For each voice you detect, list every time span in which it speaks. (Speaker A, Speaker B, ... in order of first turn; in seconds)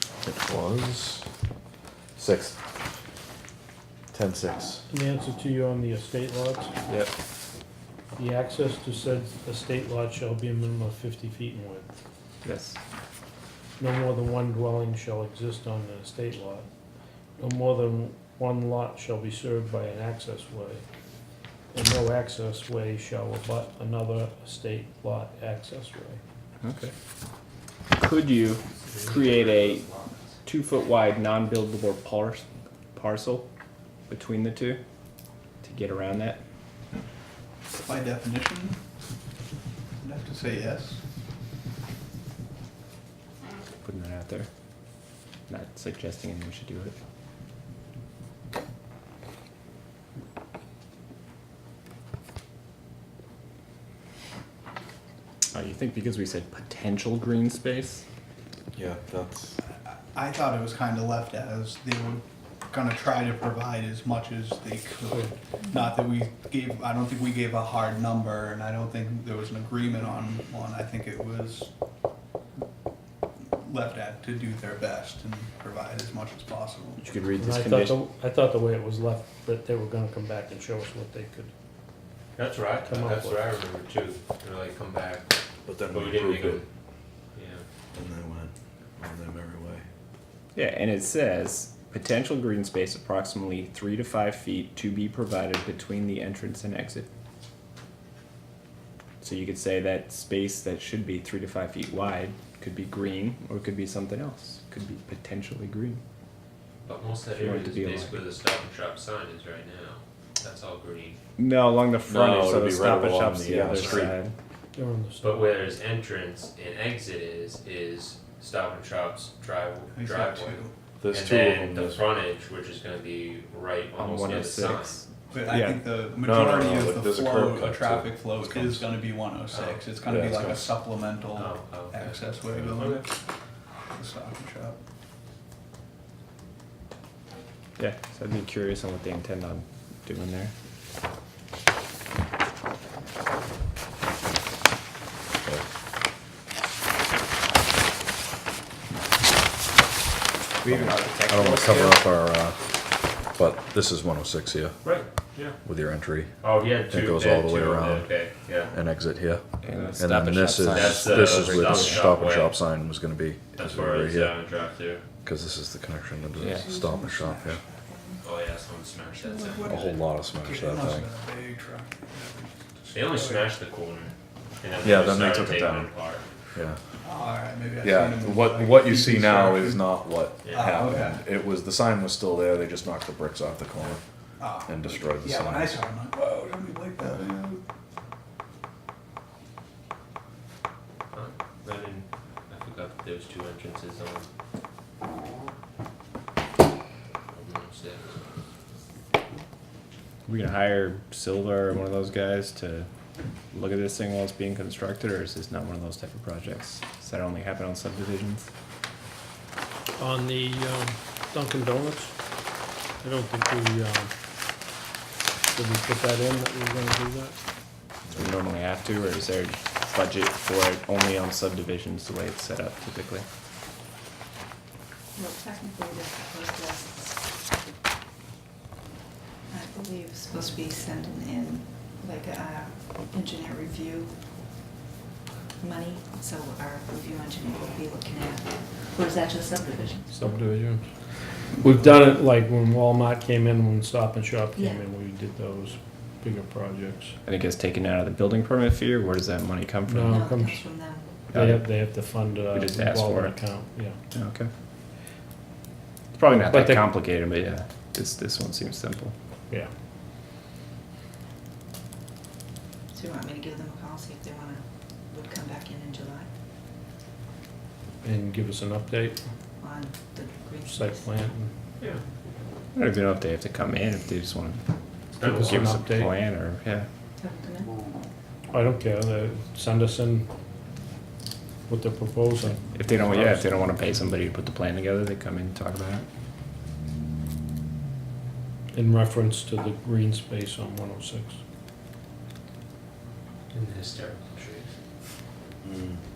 Speaker A: 0.2-1.2, 2.2-2.6, 4.1-4.8, 58.8-59.6, 85.7-86.6, 87.9-89.9, 112.2-114.2, 121.0-122.1, 126.2-128.8, 130.1-130.7, 150.7-152.6, 153.3-154.8, 155.6-156.3, 156.9-158.1, 158.7-159.4, 159.9-164.4, 165.2-167.6, 169.7-171.1, 174.8-175.9, 177.8-184.0, 184.6-185.8, 295.6-296.0
Speaker B: 4.9-6.7, 8.2-11.9, 13.8-16.7, 17.4-20.8, 21.7-26.2, 77.0-81.5, 82.8-83.5, 114.7-115.4, 210.0-212.4, 213.0-214.1, 215.5-217.4, 240.1-240.9, 241.5-247.2, 249.9-254.0, 256.4-256.8, 268.0-269.2, 270.7-271.5, 275.2-276.1, 278.5-280.3, 281.7-283.4, 288.7-291.4
Speaker C: 12.4-12.8, 26.6-26.9, 28.0-29.9, 30.5-33.5, 34.1-34.8, 35.6-36.4, 43.8-44.5, 45.5-47.0, 55.5-58.0, 77.0-78.0, 90.5-97.1, 99.2-106.0, 107.3-108.2, 111.4-114.3, 124.0-125.8, 137.8-140.5, 150.6-152.1, 159.6-162.2, 166.4-166.7, 200.3-202.9, 203.5-208.5, 218.2-223.2, 247.3-250.2, 251.3-251.7, 252.5-253.5, 254.1-254.5, 256.1-259.1, 272.8-274.6, 275.3-276.9, 282.7-286.1
Speaker D: 28.8-30.4, 82.4-85.3, 85.9-86.7, 87.3-87.6, 106.8-111.2, 112.1-112.5, 113.6-114.1, 115.2-125.0, 129.5-129.8, 131.3-133.1, 154.8-155.6, 156.4-158.8, 159.7-160.1, 160.7-162.6, 163.6-165.0, 168.2-169.8, 172.9-176.3, 180.4-180.7, 191.1-194.3, 197.3-198.1, 275.1-275.7, 293.5-294.7
Speaker E: 37.7-38.8, 40.0-41.0, 59.8-71.7, 73.5-77.0, 119.9-120.7, 125.3-133.1, 133.9-134.8, 167.3-167.5, 169.3-173.5, 177.0-181.3, 183.8-187.6
Speaker F: 166.5-168.2, 225.2-227.1, 229.5-234.2, 235.6-240.3, 244.6-244.8, 250.1-251.3, 262.9-266.3, 269.6-271.3, 277.2-277.9